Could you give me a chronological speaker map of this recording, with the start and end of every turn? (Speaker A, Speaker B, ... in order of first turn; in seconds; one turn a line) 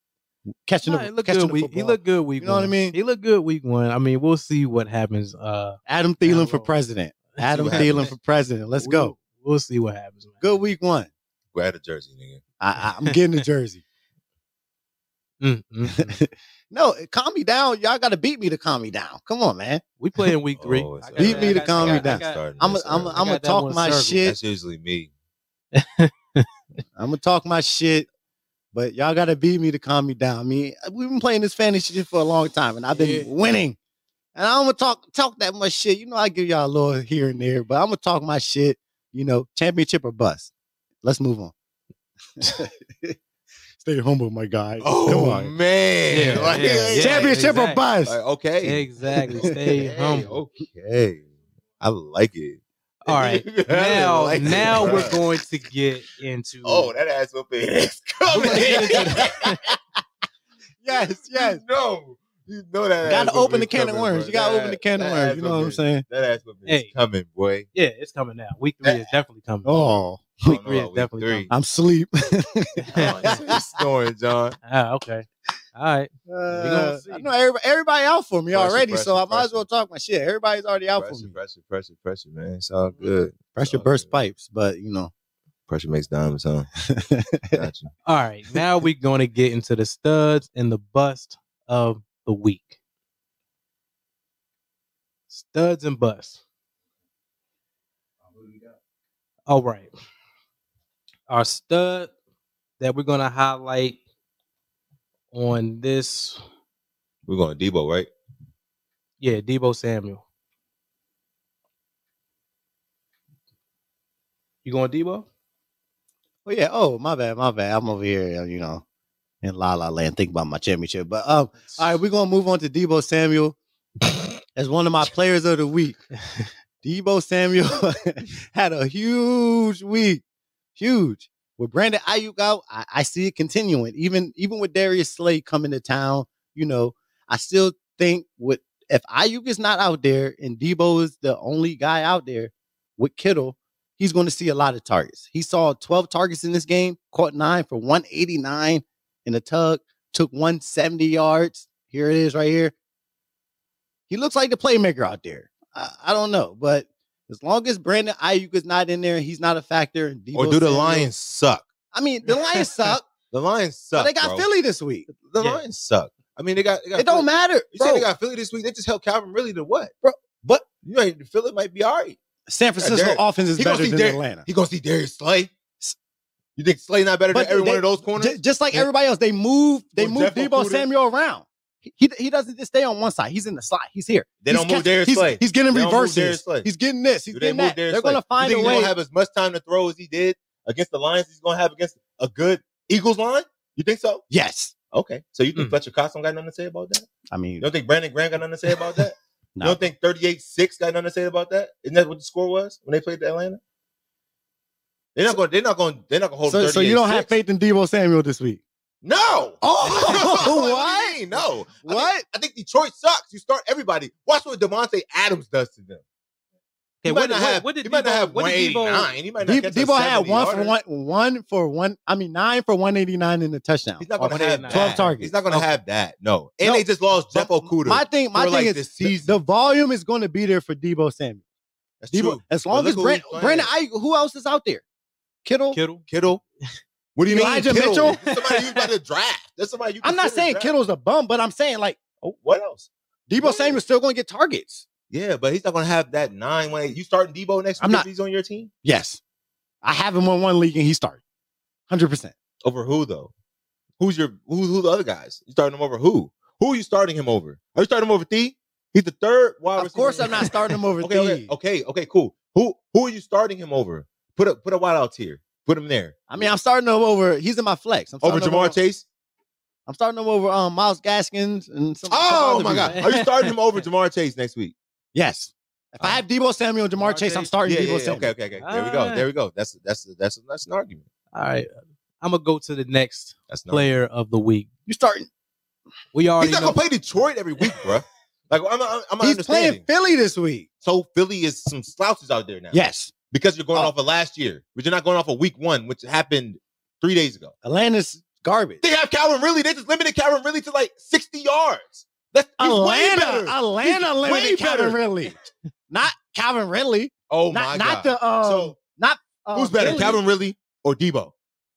Speaker A: 0.6-2.9
Speaker B: 0.8-6.7
Speaker A: 5.9-9.1
Speaker B: 7.3-8.1
Speaker C: 7.5-8.1
Speaker B: 8.8-10.4
Speaker A: 10.4-11.1
Speaker C: 11.5-12.4
Speaker A: 12.6-13.8
Speaker B: 15.4-16.2
Speaker A: 16.0-19.8
Speaker B: 20.0-22.4
Speaker C: 20.6-23.2
Speaker A: 21.1-24.4
Speaker B: 23.1-24.2
Speaker C: 24.2-25.1
Speaker B: 25.7-26.5
Speaker A: 26.9-28.1
Speaker A: 28.7-33.8
Speaker B: 32.9-33.3
Speaker A: 34.3-40.5
Speaker A: 41.0-41.5
Speaker A: 42.4-43.1
Speaker A: 43.8-45.5
Speaker C: 44.8-47.3
Speaker B: 46.1-47.8
Speaker A: 46.2-48.1
Speaker C: 48.0-48.8
Speaker B: 48.6-50.4
Speaker A: 49.3-49.6
Speaker C: 49.4-55.2
Speaker B: 53.0-56.9
Speaker A: 54.5-55.2
Speaker C: 56.6-59.6
Speaker B: 58.3-59.6
Speaker A: 58.4-59.7
Speaker A: 60.8-61.6
Speaker C: 60.9-67.7
Speaker A: 63.0-66.0
Speaker B: 67.7-69.8
Speaker A: 69.6-70.4
Speaker B: 70.4-71.5
Speaker C: 70.4-71.5
Speaker A: 71.5-73.5
Speaker B: 72.8-73.4
Speaker C: 72.9-74.6
Speaker B: 74.6-77.3
Speaker A: 76.3-81.3
Speaker C: 78.5-79.6
Speaker C: 81.0-84.2
Speaker A: 83.5-85.1
Speaker C: 85.7-86.7
Speaker A: 86.9-87.6
Speaker C: 87.5-87.9
Speaker B: 88.0-92.8
Speaker B: 95.3-96.4
Speaker B: 99.5-99.9
Speaker B: 101.3-102.1
Speaker B: 102.8-104.0
Speaker B: 105.3-106.4
Speaker C: 107.2-108.1
Speaker B: 109.2-110.2
Speaker B: 114.6-115.3
Speaker A: 116.4-118.8
Speaker A: 119.4-123.6
Speaker A: 124.5-126.0
Speaker A: 126.8-130.2
Speaker A: 130.8-152.7
Speaker A: 154.1-161.1
Speaker C: 160.3-161.7
Speaker A: 161.9-163.0
Speaker B: 162.3-162.6
Speaker C: 163.3-164.5
Speaker A: 163.9-165.1
Speaker C: 165.2-169.9
Speaker A: 166.9-168.1
Speaker A: 170.0-170.7
Speaker C: 170.8-172.2
Speaker A: 172.5-174.4
Speaker C: 172.8-175.5
Speaker C: 176.6-178.8
Speaker A: 177.3-188.9
Speaker C: 180.0-180.9
Speaker C: 184.4-186.7
Speaker C: 187.3-194.2
Speaker A: 194.3-194.7
Speaker C: 194.9-203.6
Speaker A: 197.3-197.7
Speaker A: 199.6-199.9
Speaker C: 205.1-207.3
Speaker A: 206.4-208.6
Speaker C: 209.0-216.0
Speaker A: 209.6-212.2
Speaker B: 210.0-210.4
Speaker B: 217.0-219.1
Speaker C: 217.1-220.7
Speaker A: 219.4-225.7
Speaker C: 224.0-229.3
Speaker B: 224.2-225.6
Speaker A: 226.6-231.4
Speaker C: 232.0-233.7
Speaker A: 232.1-234.8
Speaker A: 235.4-235.8
Speaker B: 235.7-236.0
Speaker C: 236.1-236.4
Speaker C: 237.2-240.7
Speaker A: 237.3-238.2
Speaker B: 238.0-238.9
Speaker A: 240.0-242.0
Speaker C: 242.2-242.9
Speaker A: 243.3-244.9
Speaker C: 243.4-243.8
Speaker C: 245.1-248.7
Speaker A: 247.8-248.1
Speaker A: 248.8-249.2
Speaker A: 249.8-251.2
Speaker A: 251.9-252.3
Speaker C: 252.6-253.3
Speaker C: 254.0-266.5
Speaker A: 259.8-261.5
Speaker A: 266.3-268.8
Speaker C: 268.2-269.1
Speaker A: 269.9-273.0
Speaker C: 272.1-274.7
Speaker B: 272.7-273.5
Speaker A: 275.1-278.3
Speaker B: 276.9-277.5
Speaker C: 277.6-281.0
Speaker B: 278.6-279.2
Speaker B: 281.3-281.7
Speaker B: 282.2-284.6
Speaker C: 283.5-283.9
Speaker A: 284.9-285.3
Speaker B: 286.1-286.8
Speaker C: 286.4-289.8
Speaker A: 289.2-290.7
Speaker C: 290.8-297.5
Speaker A: 292.7-293.1
Speaker A: 297.6-298.8
Speaker C: 298.8-305.0
Speaker A: 302.6-305.3
Speaker A: 305.9-310.2
Speaker C: 307.3-308.8
Speaker C: 309.5-311.3